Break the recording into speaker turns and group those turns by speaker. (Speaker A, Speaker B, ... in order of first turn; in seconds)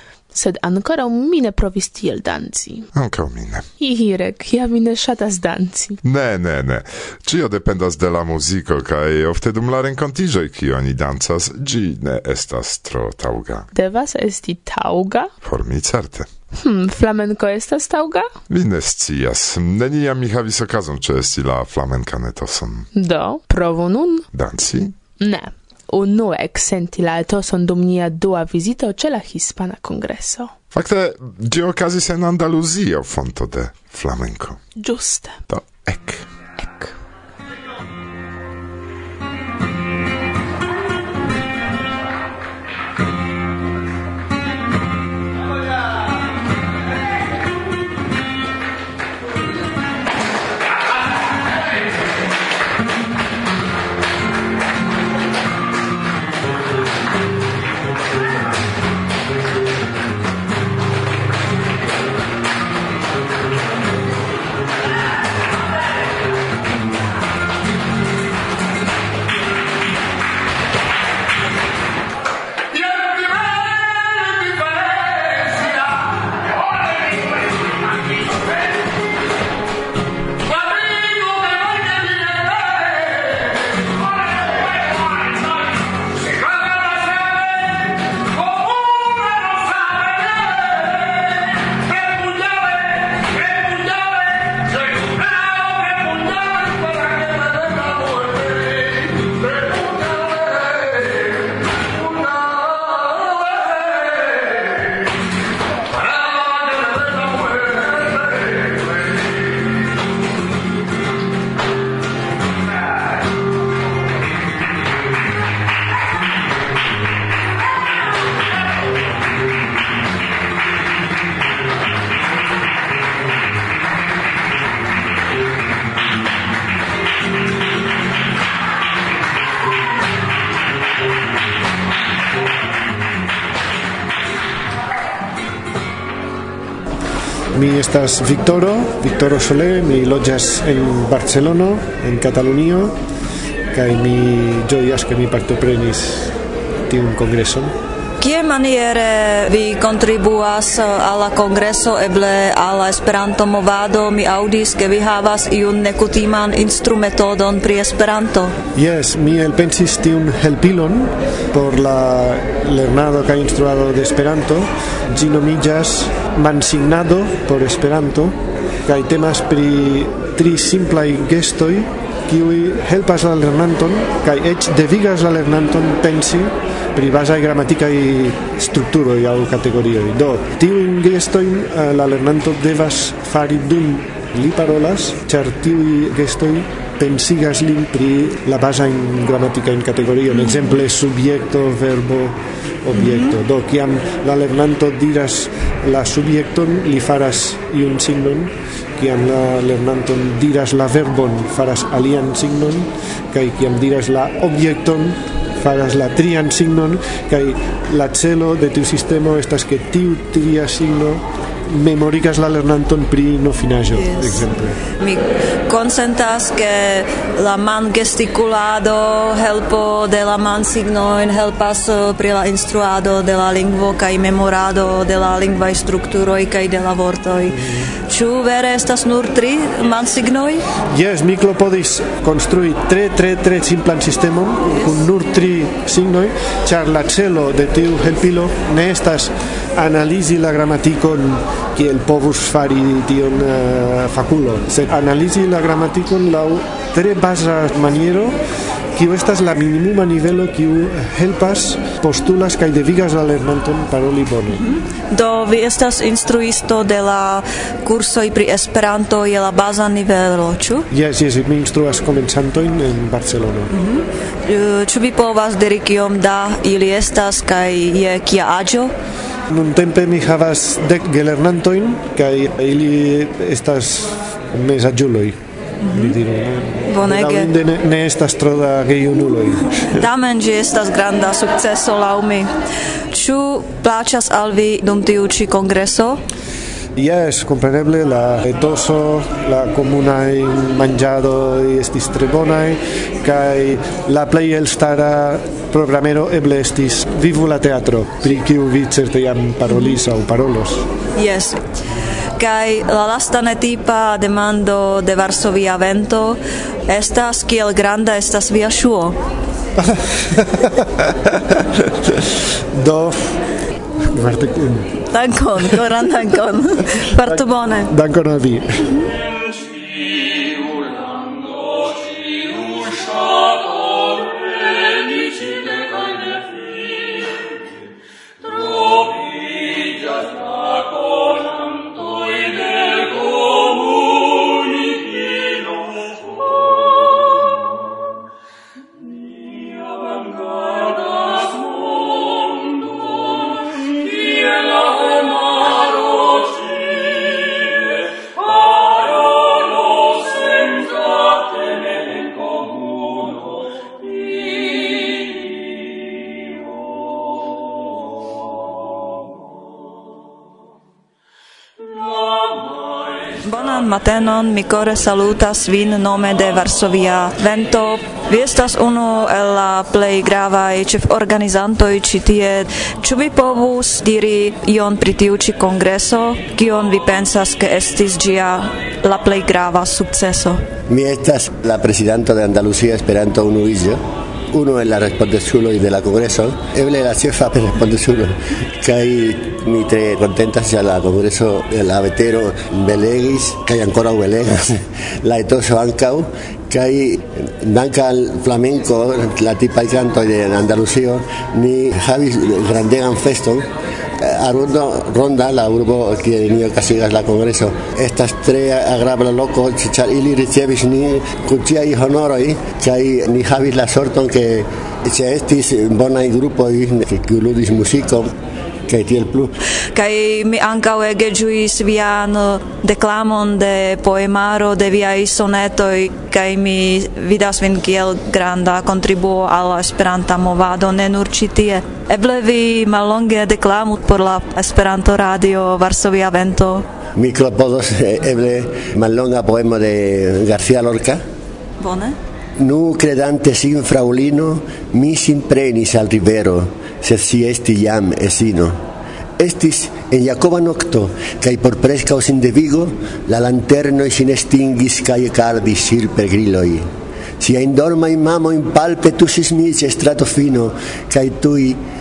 Speaker A: 0.3-2.9, 3.8-6.0, 13.7-15.3, 16.6-18.3, 22.9-24.3, 25.2-30.5, 34.8-35.4
Speaker B: 2.9-3.7, 6.0-13.7, 15.4-16.3, 18.5-22.9, 24.3-24.9, 30.7-34.6, 35.5-36.9
Speaker C: 137.5-142.9, 143.7-146.3, 146.9-147.7, 158.8-168.4, 168.9-214.8, 230.9-248.4, 249.0-254.6, 260.9-263.7, 269.5-275.4, 275.9-279.9, 287.0-300.9, 309.8-310.9, 312.8-313.4, 314.1-314.9, 317.2-318.9
Speaker D: 148.2-158.6, 193.0-193.3, 213.9-214.4, 215.0-230.7, 254.5-260.9, 263.7-268.9, 275.9-276.2, 276.9-277.5, 279.9-282.5, 283.1-286.2, 301.2-301.6, 302.4-309.2, 315.1-317.9, 363.4-380.6, 419.9-436.9, 441.8-442.2
Speaker E: 380.9-403.7, 404.2-418.3, 418.9-419.5, 437.2-441.2, 442.6-448.8, 449.4-456.9, 457.4-461.8